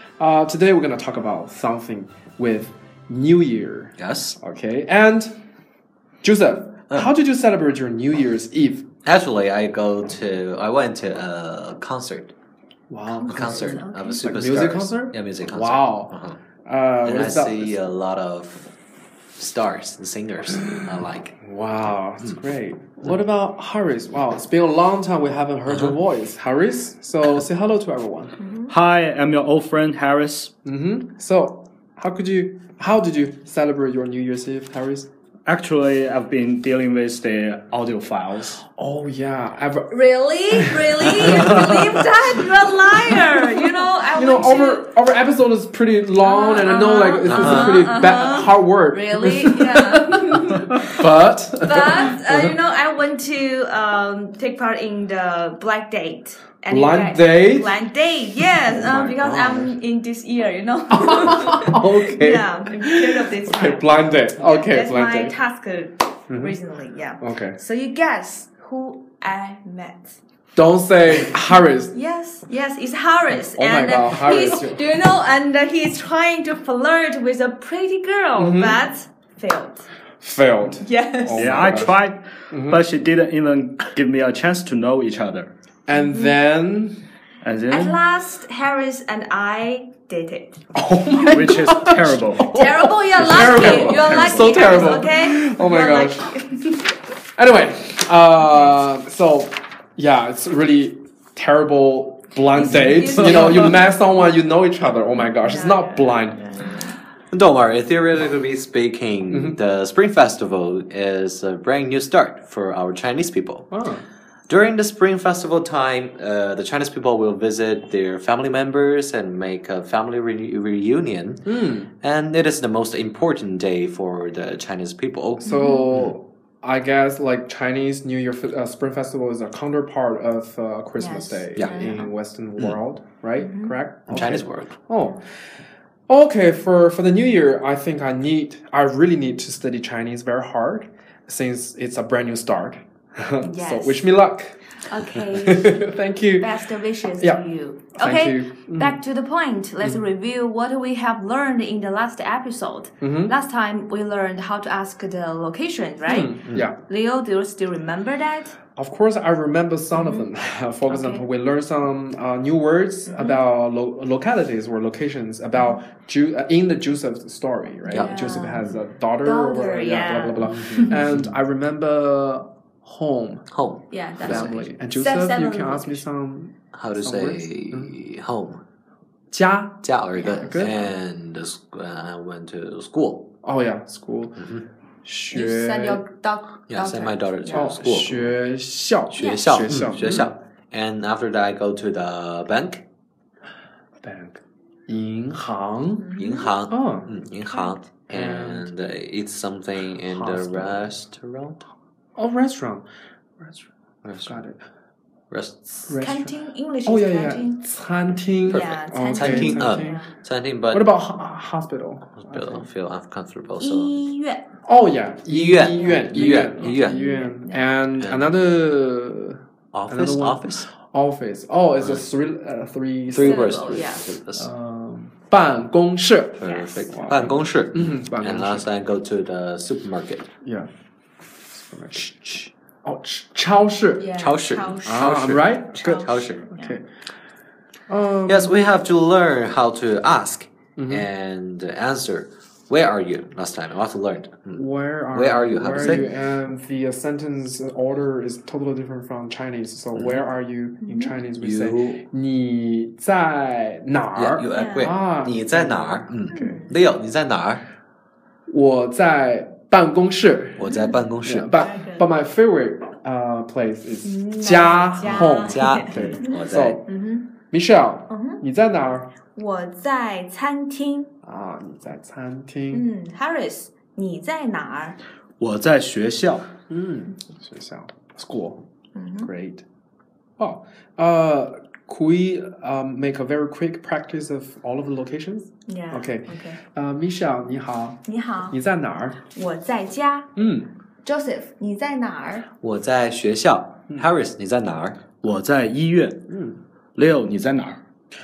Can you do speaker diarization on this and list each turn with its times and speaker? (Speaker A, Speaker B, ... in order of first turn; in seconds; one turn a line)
Speaker A: 0.2-5.3
Speaker B: 4.0-4.4
Speaker A: 6.2-8.9
Speaker B: 9.0-12.3
Speaker A: 12.9-16.1
Speaker C: 13.1-14.2
Speaker B: 13.3-16.4
Speaker A: 16.6-17.8
Speaker B: 17.0-18.6
Speaker B: 19.4-21.4
Speaker A: 21.4-28.4
Speaker B: 25.7-25.9
Speaker C: 28.4-28.7
Speaker D: 28.7-30.5
Speaker A: 30.6-35.1
Speaker D: 35.5-38.6
Speaker A: 38.6-40.0
Speaker C: 39.9-44.9
Speaker A: 40.5-42.0
Speaker A: 44.1-52.5
Speaker C: 46.2-51.0
Speaker B: 47.3-47.9
Speaker C: 51.6-70.2
Speaker A: 56.7-57.7
Speaker A: 58.6-59.7
Speaker A: 60.9-65.3
Speaker A: 66.3-66.5
Speaker A: 67.2-67.6
Speaker A: 70.5-71.9
Speaker C: 71.9-79.8
Speaker A: 73.4-74.8
Speaker A: 78.4-78.8
Speaker A: 80.2-82.8
Speaker C: 80.8-81.8
Speaker D: 81.3-85.5
Speaker A: 85.9-87.0
Speaker C: 85.9-86.4
Speaker D: 87.4-88.0
Speaker C: 87.7-90.6
Speaker A: 90.7-96.4
Speaker D: 91.3-92.6
Speaker C: 92.5-96.7
Speaker A: 97.3-106.4
Speaker C: 102.5-103.8
Speaker C: 105.3-107.0
Speaker B: 107.3-113.7
Speaker A: 109.3-109.6
Speaker A: 113.7-114.0
Speaker B: 114.5-121.5
Speaker A: 121.5-121.9
Speaker B: 122.0-126.1
Speaker A: 125.4-135.2
Speaker C: 125.5-125.9
Speaker C: 131.0-132.1
Speaker C: 133.4-133.8
Speaker B: 134.1-134.8
Speaker A: 136.1-144.6
Speaker C: 143.4-144.1
Speaker C: 144.8-158.6
Speaker A: 145.2-146.5
Speaker A: 147.2-149.0
Speaker A: 153.0-153.3
Speaker A: 156.1-156.8
Speaker A: 158.8-173.4
Speaker C: 159.9-160.3
Speaker C: 160.9-161.2
Speaker C: 163.1-163.4
Speaker C: 167.8-170.9
Speaker B: 170.5-171.3
Speaker B: 173.5-174.6
Speaker C: 173.9-176.0
Speaker A: 174.2-177.9
Speaker B: 176.7-178.6
Speaker A: 179.3-180.8
Speaker B: 179.8-183.3
Speaker C: 180.2-180.5
Speaker A: 183.4-184.4
Speaker B: 184.4-184.6
Speaker A: 185.0-186.0
Speaker C: 185.3-187.7
Speaker B: 186.7-188.3
Speaker A: 187.5-190.3
Speaker C: 189.1-189.7
Speaker B: 189.2-192.8
Speaker A: 194.0-196.1
Speaker C: 196.0-196.5
Speaker B: 196.2-201.6
Speaker A: 196.7-197.1
Speaker C: 197.5-197.8
Speaker A: 198.1-198.7
Speaker A: 200.1-200.9
Speaker A: 202.2-202.8
Speaker A: 203.4-203.7
Speaker B: 204.0-204.4
Speaker A: 204.2-204.6
Speaker B: 205.3-205.9
Speaker A: 205.9-210.0
Speaker C: 206.0-207.6
Speaker C: 208.5-210.1
Speaker B: 208.5-210.8
Speaker A: 210.7-212.7
Speaker B: 212.2-214.0
Speaker C: 213.6-214.5
Speaker A: 214.7-228.7
Speaker B: 215.3-217.0
Speaker C: 215.8-217.6
Speaker B: 219.7-220.7
Speaker B: 223.1-224.5
Speaker C: 223.1-224.0
Speaker B: 226.4-230.3
Speaker C: 226.4-226.9
Speaker A: 230.4-230.7
Speaker A: 231.3-234.1
Speaker C: 234.0-236.8
Speaker B: 234.1-236.4
Speaker A: 234.8-236.8
Speaker A: 237.9-238.5
Speaker B: 238.3-246.1
Speaker A: 240.8-241.1
Speaker A: 244.5-256.6
Speaker B: 249.9-250.2
Speaker C: 250.8-251.1
Speaker B: 251.4-252.0
Speaker B: 254.2-257.6
Speaker C: 254.5-254.9
Speaker C: 256.3-256.8
Speaker A: 258.5-266.9
Speaker B: 260.6-261.5
Speaker C: 260.7-260.9
Speaker C: 261.5-262.1
Speaker C: 264.0-266.3
Speaker B: 265.2-266.8
Speaker C: 266.9-267.3
Speaker A: 267.5-269.1
Speaker C: 268.1-268.4
Speaker C: 269.3-271.1
Speaker A: 271.2-272.9
Speaker C: 272.7-275.0
Speaker D: 275.4-276.5
Speaker A: 276.7-278.6
Speaker C: 278.9-279.3
Speaker A: 279.2-279.6
Speaker A: 280.4-289.2
Speaker C: 285.7-286.6
Speaker C: 288.0-288.6
Speaker C: 289.3-290.3
Speaker A: 290.4-290.7
Speaker C: 291.0-292.4
Speaker B: 292.6-295.0
Speaker D: 295.2-296.2
Speaker A: 296.3-296.6
Speaker D: 296.9-297.8